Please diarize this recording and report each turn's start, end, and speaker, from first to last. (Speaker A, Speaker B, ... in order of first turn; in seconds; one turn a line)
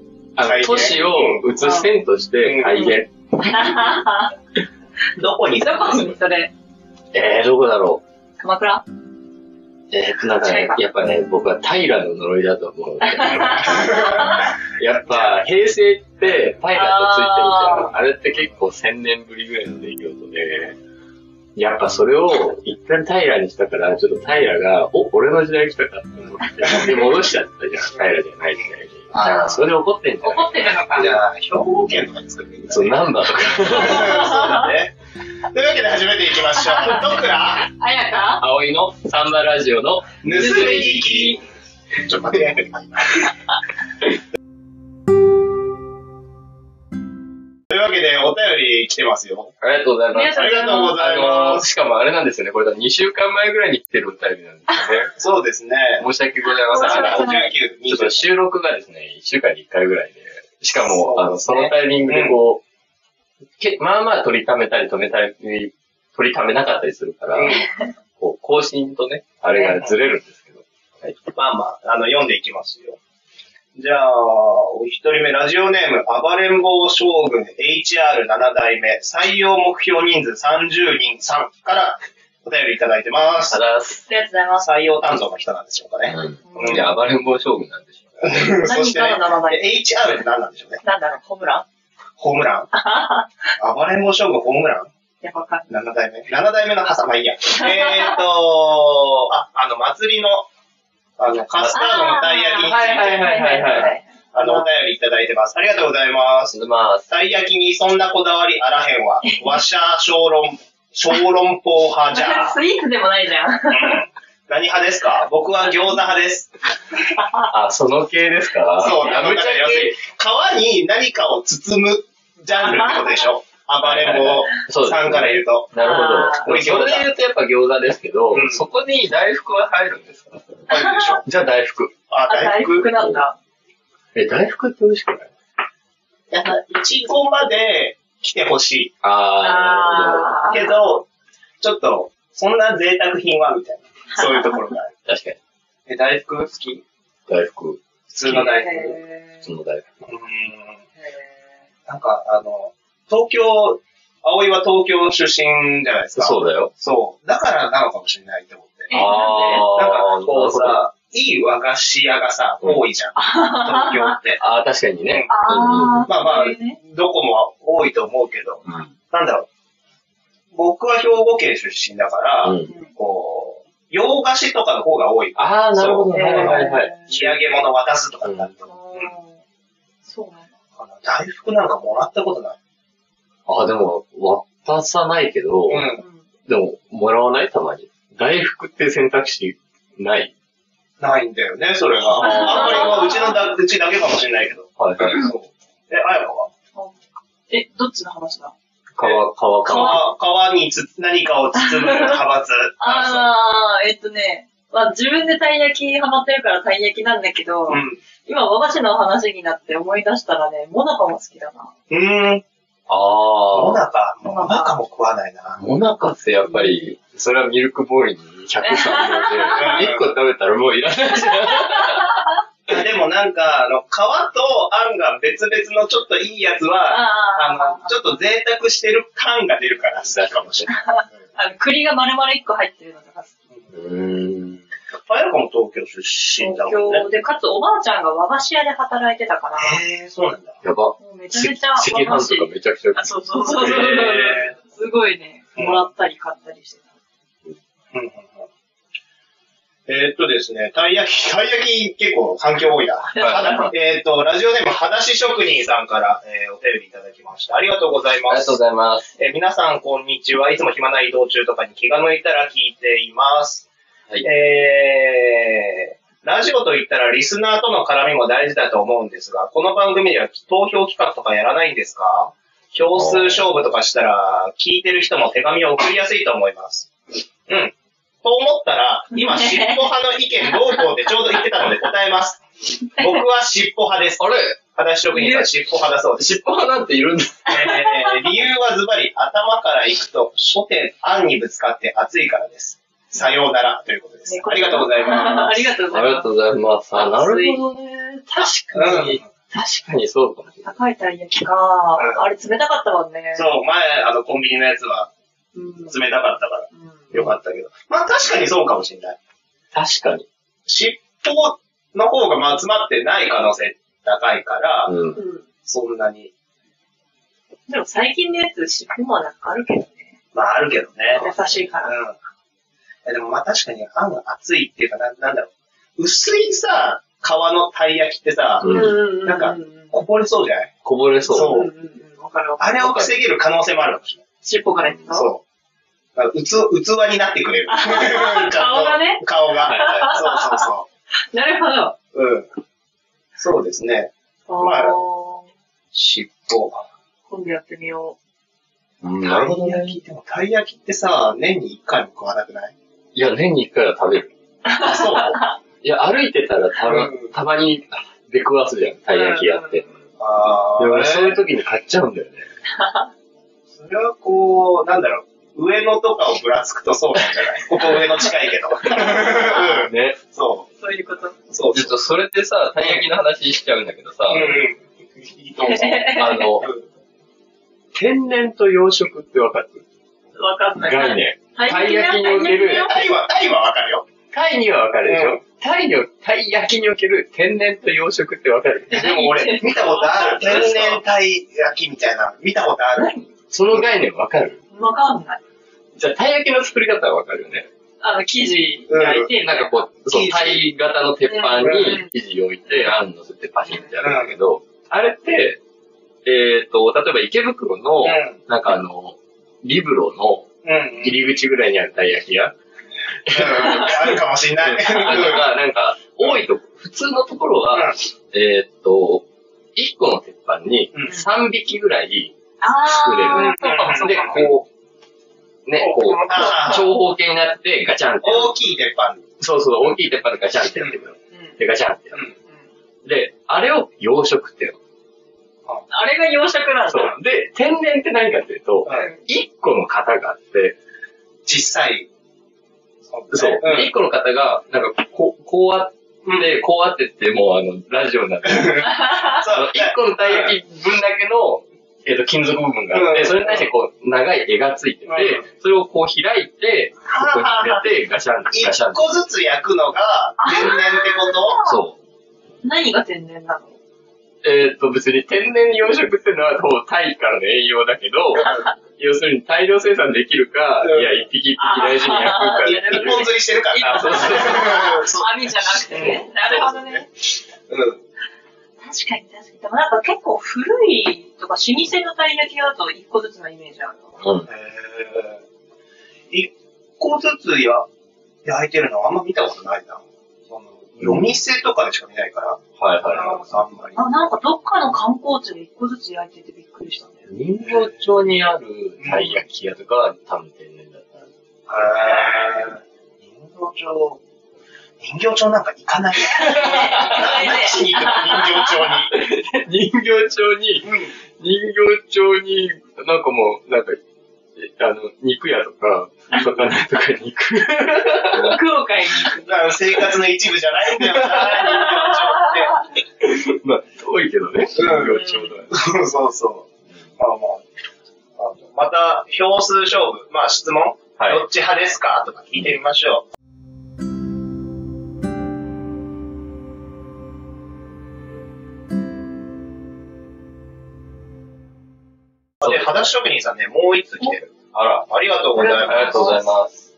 Speaker A: 0.3-3.1
Speaker B: 0.4-1.5
Speaker C: 1.6-1.9
Speaker B: 2.4-2.9
Speaker C: 2.8-4.3
Speaker B: 5.2-6.2
Speaker C: 5.6-6.5
Speaker A: 7.1-8.0
Speaker C: 8.4-8.8
Speaker A: 9.9-20.8
Speaker C: 10.4-10.8
Speaker C: 13.0-14.5
Speaker B: 13.6-15.4
Speaker C: 16.7-17.9
Speaker A: 21.6-30.5
Speaker B: 26.6-27.1
Speaker B: 29.1-29.6
Speaker C: 29.2-29.5
Speaker C: 30.2-31.2
Speaker B: 30.9-34.9
Speaker A: 32.7-34.3
Speaker C: 33.8-34.7
Speaker B: 35.5-37.7
Speaker C: 36.5-38.4
Speaker A: 38.4-41.0
Speaker B: 40.2-41.4
Speaker C: 40.3-41.4
Speaker B: 42.0-43.3
Speaker B: 47.7-49.5
Speaker A: 49.6-55.1
Speaker C: 50.1-51.0
Speaker B: 50.3-51.6
Speaker B: 55.2-56.1
Speaker A: 56.0-62.6
Speaker C: 56.7-57.5
Speaker B: 56.7-58.3
Speaker B: 60.8-62.4
Speaker A: 63.6-67.6
Speaker B: 67.3-67.7
Speaker A: 68.2-71.2
Speaker B: 69.6-69.9
Speaker B: 71.3-73.0
Speaker B: 73.8-83.6
Speaker A: 83.5-84.1
Speaker C: 84.1-85.0
Speaker B: 84.6-86.9
Speaker A: 86.1-88.6
Speaker C: 86.5-86.9
Speaker B: 88.2-90.8
Speaker C: 88.6-89.8
Speaker C: 90.8-91.6
Speaker B: 92.2-92.7
Speaker C: 92.7-93.5
Speaker B: 93.6-94.9
Speaker C: 95.2-95.7
Speaker B: 95.7-100.5
Speaker C: 97.5-98.2
Speaker B: 101.2-103.2
Speaker C: 101.7-104.7
Speaker A: 102.6-104.0
Speaker B: 104.3-106.5
Speaker A: 106.5-107.1
Speaker B: 107.1-112.6
Speaker C: 109.2-109.6
Speaker C: 112.1-114.0
Speaker B: 113.7-116.5
Speaker C: 117.1-117.5
Speaker A: 117.5-120.0
Speaker B: 118.8-125.7
Speaker C: 118.8-119.1
Speaker C: 122.7-123.2
Speaker A: 123.8-130.7
Speaker C: 125.8-126.5
Speaker B: 126.4-127.1
Speaker B: 128.3-128.6
Speaker B: 130.7-131.2
Speaker C: 130.7-131.2
Speaker A: 131.2-131.9
Speaker B: 132.1-132.9
Speaker C: 132.3-133.3
Speaker A: 134.2-135.3
Speaker B: 136.3-138.9
Speaker A: 139.0-140.6
Speaker C: 139.4-140.8
Speaker B: 140.5-141.1
Speaker B: 141.6-144.9
Speaker C: 144.2-144.7
Speaker A: 145.1-145.4
Speaker B: 145.9-146.8
Speaker A: 147.3-148.5
Speaker B: 148.1-149.0
Speaker C: 148.3-149.4
Speaker A: 149.4-149.8
Speaker B: 150.0-150.8
Speaker B: 151.8-158.9
Speaker A: 156.2-156.7
Speaker C: 158.9-159.7
Speaker A: 158.9-160.8
Speaker B: 159.6-164.4
Speaker C: 163.2-164.2
Speaker A: 164.4-166.1
Speaker B: 165.1-165.3
Speaker C: 165.3-166.8
Speaker B: 166.1-169.5
Speaker A: 168.7-168.9
Speaker B: 170.5-179.1
Speaker A: 172.4-172.7
Speaker A: 175.3-177.3
Speaker C: 176.1-177.2
Speaker C: 178.7-179.4
Speaker C: 180.1-180.5
Speaker B: 180.8-182.6
Speaker A: 183.5-185.9
Speaker B: 185.7-186.0
Speaker C: 186.0-186.2
Speaker A: 186.5-190.3
Speaker B: 191.0-196.5
Speaker A: 192.0-193.0
Speaker C: 192.2-193.5
Speaker A: 194.8-195.3
Speaker C: 197.5-198.5
Speaker A: 198.9-200.0
Speaker B: 199.0-203.3
Speaker C: 199.7-200.0
Speaker C: 201.6-202.2
Speaker C: 202.8-211.7
Speaker B: 207.7-208.0
Speaker B: 211.9-212.4
Speaker A: 212.9-213.8
Speaker B: 213.5-215.6
Speaker C: 214.3-214.7
Speaker A: 215.6-222.2
Speaker C: 216.5-216.9
Speaker C: 218.6-219.8
Speaker B: 219.6-220.1
Speaker C: 221.4-222.2
Speaker B: 222.7-231.1
Speaker C: 226.9-228.1
Speaker A: 230.1-230.7
Speaker C: 230.7-233.3
Speaker A: 233.7-234.6
Speaker B: 235.1-237.0
Speaker C: 236.4-239.8
Speaker B: 239.6-240.6
Speaker A: 240.6-244.5
Speaker C: 241.0-246.8
Speaker B: 243.5-244.5
Speaker B: 247.9-248.5
Speaker B: 249.9-258.6
Speaker C: 253.2-253.7
Speaker A: 253.2-253.7
Speaker A: 258.3-259.1
Speaker B: 259.2-263.7
Speaker B: 264.2-276.9
Speaker A: 272.9-273.5
Speaker B: 277.5-282.4
Speaker C: 279.1-279.9
Speaker C: 280.4-280.9
Speaker B: 282.9-286.3
Speaker A: 284.2-284.6
Speaker C: 285.1-285.5
Speaker A: 286.2-287.6
Speaker B: 287.5-295.7
Speaker C: 287.5-288.3
Speaker C: 294.3-296.3
Speaker A: 295.9-300.6
Speaker C: 296.9-297.6
Speaker B: 298.7-299.2
Speaker C: 300.6-303.5
Speaker B: 302.0-302.2
Speaker B: 303.3-305.1
Speaker C: 305.5-306.0
Speaker B: 305.9-309.2
Speaker C: 306.8-307.0
Speaker A: 309.7-310.2
Speaker B: 310.6-314.9
Speaker A: 314.9-315.2
Speaker C: 315.1-315.4
Speaker B: 315.6-316.3
Speaker C: 317.7-320.1
Speaker B: 320.3-321.3
Speaker A: 321.1-321.7
Speaker C: 321.1-322.0
Speaker B: 321.8-322.2
Speaker B: 323.0-330.7
Speaker A: 328.6-328.9
Speaker C: 328.6-329.9
Speaker A: 330.8-331.6
Speaker B: 331.3-331.7
Speaker C: 331.3-332.8
Speaker B: 332.6-334.2
Speaker A: 332.8-333.1
Speaker C: 334.4-335.3
Speaker A: 334.8-335.1
Speaker B: 335.1-335.4
Speaker B: 336.1-340.9
Speaker C: 337.7-340.6
Speaker A: 339.6-340.2
Speaker C: 341.3-341.9
Speaker B: 342.1-342.5
Speaker B: 343.4-344.9
Speaker C: 344.5-345.5
Speaker B: 345.9-346.8
Speaker C: 347.3-348.1
Speaker A: 349.0-350.0
Speaker B: 349.2-352.7
Speaker A: 353.1-354.3
Speaker C: 354.6-355.5
Speaker B: 354.8-355.5
Speaker A: 355.8-359.9
Speaker B: 356.9-357.3
Speaker C: 359.1-359.8
Speaker B: 360.2-361.4
Speaker A: 360.8-362.5
Speaker C: 362.8-363.1
Speaker B: 363.7-370.7
Speaker C: 368.8-369.9
Speaker A: 369.8-370.2
Speaker C: 370.8-371.4
Speaker B: 371.5-371.9
Speaker A: 371.7-374.6
Speaker B: 374.3-376.8
Speaker C: 375.6-376.5
Speaker A: 376.1-376.7
Speaker A: 377.9-379.8
Speaker C: 380.4-383.1
Speaker A: 380.7-382.9
Speaker B: 382.8-384.0
Speaker A: 384.3-389.0
Speaker B: 385.1-385.4
Speaker C: 388.9-390.9
Speaker B: 388.9-393.1
Speaker A: 390.5-390.9
Speaker C: 392.9-393.3
Speaker A: 393.5-394.6
Speaker C: 394.7-395.4
Speaker A: 395.9-397.7
Speaker C: 398.0-399.8
Speaker B: 398.9-399.3
Speaker A: 399.3-405.6
Speaker B: 400.1-400.6
Speaker C: 401.3-402.0
Speaker B: 401.6-402.0
Speaker B: 404.0-404.3
Speaker A: 406.2-412.5
Speaker B: 408.0-408.4
Speaker B: 410.6-411.2
Speaker A: 413.2-419.2
Speaker B: 413.3-415.4
Speaker A: 419.8-424.6
Speaker C: 422.6-424.5
Speaker B: 423.3-424.5
Speaker A: 425.6-428.5
Speaker C: 425.8-426.9
Speaker B: 426.0-426.9
Speaker B: 428.2-429.2
Speaker A: 429.4-432.2
Speaker A: 433.0-434.8
Speaker C: 435.9-437.1
Speaker A: 436.9-440.8
Speaker B: 441.4-442.1
Speaker B: 443.1-443.9
Speaker A: 443.3-459.1
Speaker B: 446.2-446.5
Speaker B: 448.4-450.5
Speaker B: 452.9-453.6
Speaker B: 455.1-455.4
Speaker B: 457.0-457.8
Speaker B: 458.5-461.6
Speaker C: 460.4-461.8
Speaker A: 461.6-462.0
Speaker C: 462.6-463.7
Speaker A: 464.4-473.2
Speaker B: 470.8-471.2
Speaker C: 471.6-477.1
Speaker B: 472.6-477.1
Speaker A: 473.8-474.9
Speaker B: 477.7-478.0
Speaker C: 478.8-484.1
Speaker A: 484.2-484.5
Speaker B: 484.5-485.4
Speaker B: 486.3-487.9
Speaker B: 488.4-494.3
Speaker A: 491.0-491.4
Speaker A: 492.8-493.5
Speaker C: 493.9-497.2
Speaker A: 497.3-501.3
Speaker B: 497.6-498.1
Speaker B: 499.0-499.4
Speaker B: 501.7-504.2
Speaker B: 505.0-509.1
Speaker A: 506.3-507.4
Speaker C: 506.3-509.0
Speaker A: 509.1-514.0
Speaker B: 510.8-511.1
Speaker A: 514.6-518.6
Speaker C: 518.2-520.0
Speaker B: 519.4-522.8
Speaker A: 521.1-521.5
Speaker C: 521.3-522.8
Speaker A: 523.2-525.8
Speaker B: 524.8-527.6
Speaker C: 524.9-525.5
Speaker B: 528.4-533.2
Speaker A: 531.2-531.4
Speaker B: 542.6-544.5
Speaker A: 542.6-543.1
Speaker A: 544.7-545.0
Speaker B: 545.1-546.3
Speaker C: 545.5-546.5
Speaker A: 545.7-546.9